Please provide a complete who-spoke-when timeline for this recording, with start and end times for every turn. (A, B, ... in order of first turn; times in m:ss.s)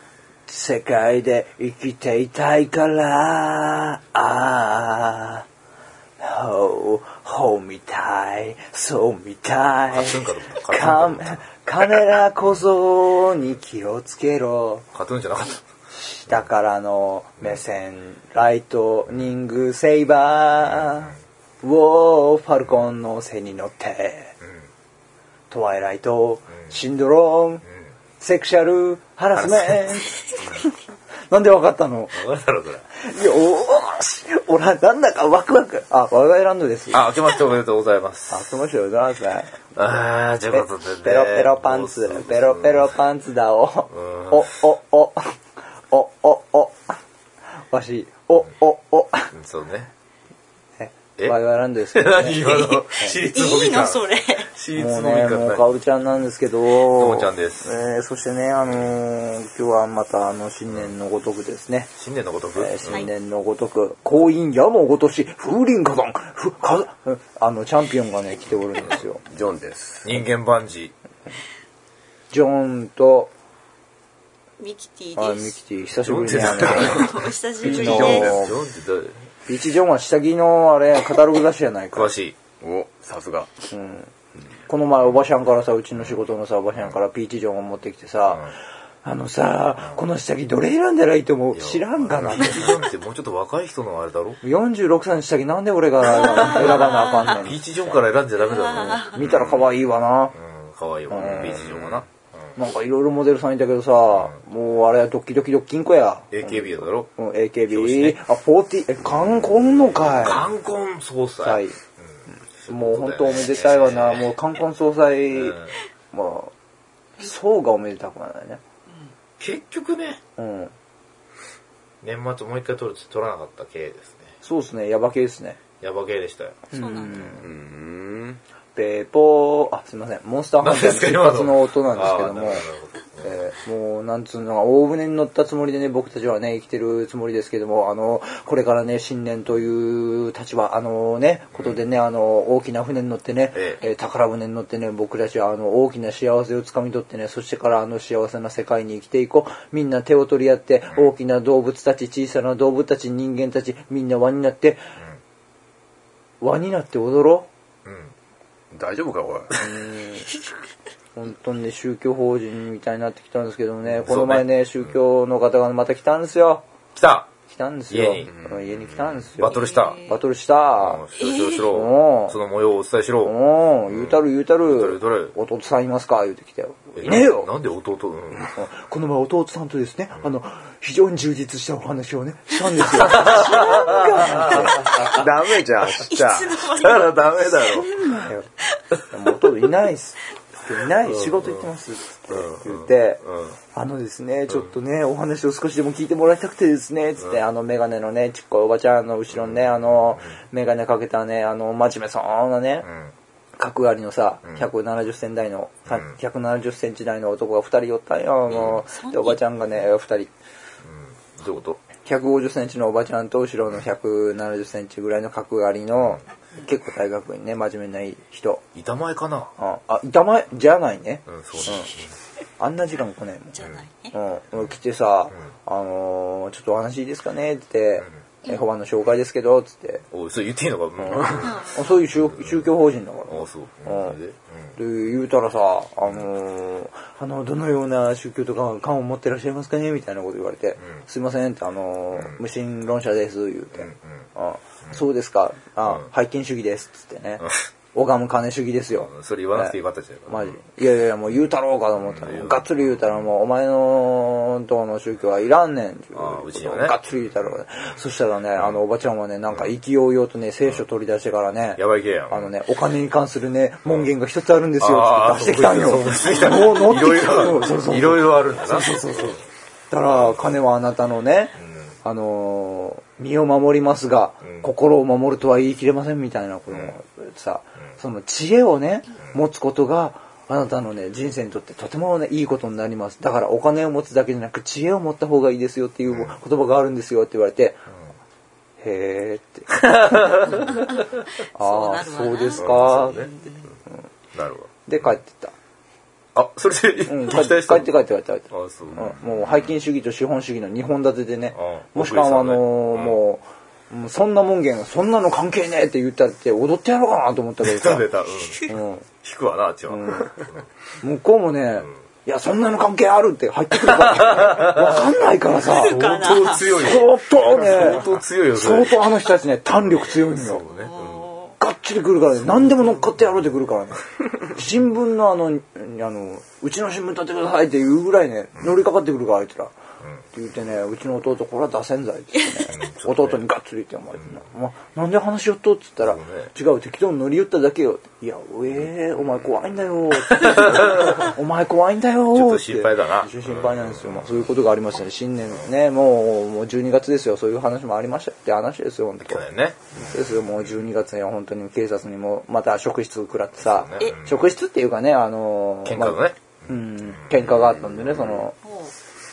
0:00.5-0:05.5 A
0:06.2-0:14.9 A
0:09.9-0:12.4 B
0:14.9-0:15.6 B
0:15.9-0:24.3 A
0:25.5-0:27.6 A
0:28.2-0:30.7 A
0:29.4-0:29.9 B
0:31.3-0:32.2 A
0:32.1-0:32.9 B
0:33.0-0:37.0 A
0:36.9-0:38.5 B
0:38.3-0:39.6 A
0:39.7-0:42.9 B
0:40.5-0:45.3 A
0:43.9-0:44.5 B
0:45.9-0:47.0 A
0:47.7-0:49.3 A
0:49.3-0:49.9 B
0:50.8-0:53.2 A
0:51.9-0:55.8 B
0:52.4-0:54.5 C
0:54.8-1:01.9 A
0:56.8-0:57.7 B
0:58.6-0:58.9 B
1:02.0-1:03.1 B
1:02.6-1:09.2 A
1:09.3-1:10.2 D
1:10.0-1:10.9 B
1:12.3-1:13.3 A
1:14.6-1:15.6 C
1:15.2-1:18.6 A
1:16.0-1:19.3 B
1:16.6-1:18.4 C
1:17.6-1:18.4 D
1:19.5-1:22.1 A
1:21.9-1:22.4 B
1:22.6-1:23.5 D
1:23.7-1:24.1 A
1:24.7-1:32.8 A
1:31.5-1:34.4 B
1:34.4-1:37.9 A
1:36.2-1:39.7 B
1:36.4-1:37.4 C
1:38.4-1:39.2 C
1:38.7-1:40.4 A
1:40.3-1:42.1 B
1:41.1-1:42.0 A
1:42.6-1:50.5 A
1:46.3-1:47.1 B
1:47.7-1:48.2 B
1:50.0-1:51.6 B
1:51.4-1:51.8 A
1:52.6-1:54.3 B
1:52.7-1:56.5 A
1:55.3-1:55.8 B
1:57.2-1:58.6 A
1:59.4-2:00.2 B
2:00.4-2:00.7 A
2:02.0-2:04.3 B
2:04.4-2:05.6 A
2:05.8-2:06.7 B
2:06.7-2:07.5 A
2:06.7-2:07.3 C
2:07.4-2:08.4 D
2:08.8-2:12.7 A
2:10.6-2:13.5 B
2:13.2-2:34.8 A
2:23.5-2:23.8 B
2:36.4-2:37.5 A
2:37.8-2:38.2 B
2:38.7-2:39.6 D
2:39.6-2:40.3 A
2:41.2-2:46.6 A
2:44.0-2:44.8 B
2:47.0-2:47.3 B
2:47.5-2:51.0 A
2:47.9-2:48.4 B
2:48.3-2:48.8 D
2:49.3-2:50.1 B
2:49.5-2:50.2 C
2:50.8-2:53.4 B
2:51.2-2:51.5 C
2:51.7-2:52.4 A
2:53.2-2:57.5 A
2:53.9-2:55.4 B
2:57.0-2:58.6 B
2:58.6-3:05.0 A
3:03.1-3:05.0 B
3:04.7-3:07.8 D
3:05.8-3:07.8 C
3:06.8-3:07.8 B
3:07.6-3:08.5 A
3:09.1-3:22.9 A
3:11.1-3:11.6 B
3:12.3-3:13.6 B
3:19.3-3:20.3 B
3:22.8-3:23.1 B
3:23.6-3:30.3 A
3:28.7-3:29.4 C
3:30.8-3:31.8 B
3:32.0-3:38.6 A
3:38.8-3:39.5 B
3:39.6-3:41.9 A
3:41.3-3:42.1 B
3:42.6-3:50.0 A
3:43.5-3:44.1 C
3:50.1-3:52.7 B
3:51.0-3:54.2 A
3:51.4-3:52.0 C
3:53.3-3:54.8 B
3:54.8-4:09.8 A
4:02.2-4:02.4 B
4:03.8-4:04.3 B
4:09.0-4:10.6 B
4:10.3-4:47.8 A
4:12.0-4:13.1 B
4:16.1-4:17.0 B
4:21.8-4:22.5 B
4:23.9-4:24.1 B
4:24.8-4:29.4 B
4:30.1-4:30.5 B
4:31.6-4:32.0 B
4:34.4-4:34.7 B
4:36.7-4:37.0 B
4:46.1-4:46.3 B
4:48.8-4:50.8 A
4:49.7-4:50.8 B
4:50.5-4:53.7 C
4:51.6-4:53.3 A
4:52.6-4:53.3 B
4:54.3-4:54.7 B
4:54.9-4:55.5 A
4:56.4-4:57.9 B
4:57.1-5:08.1 A
4:58.5-4:59.7 B
5:01.5-5:03.2 B
5:07.6-5:10.7 B
5:08.6-5:09.1 A
5:09.9-5:10.4 A
5:11.0-5:16.0 A
5:14.0-5:14.9 B
5:15.5-5:16.9 C
5:15.8-5:19.0 B
5:16.7-5:20.7 A
5:19.8-5:21.3 B
5:20.6-5:21.6 C
5:21.6-5:29.7 A
5:30.3-5:58.6 A
5:32.7-5:33.4 B
5:36.0-5:36.5 B
5:40.3-5:41.2 B
5:42.3-5:44.6 B
5:49.2-5:50.1 B
5:53.6-5:54.5 B
5:55.8-5:58.4 B
5:58.6-5:58.9 C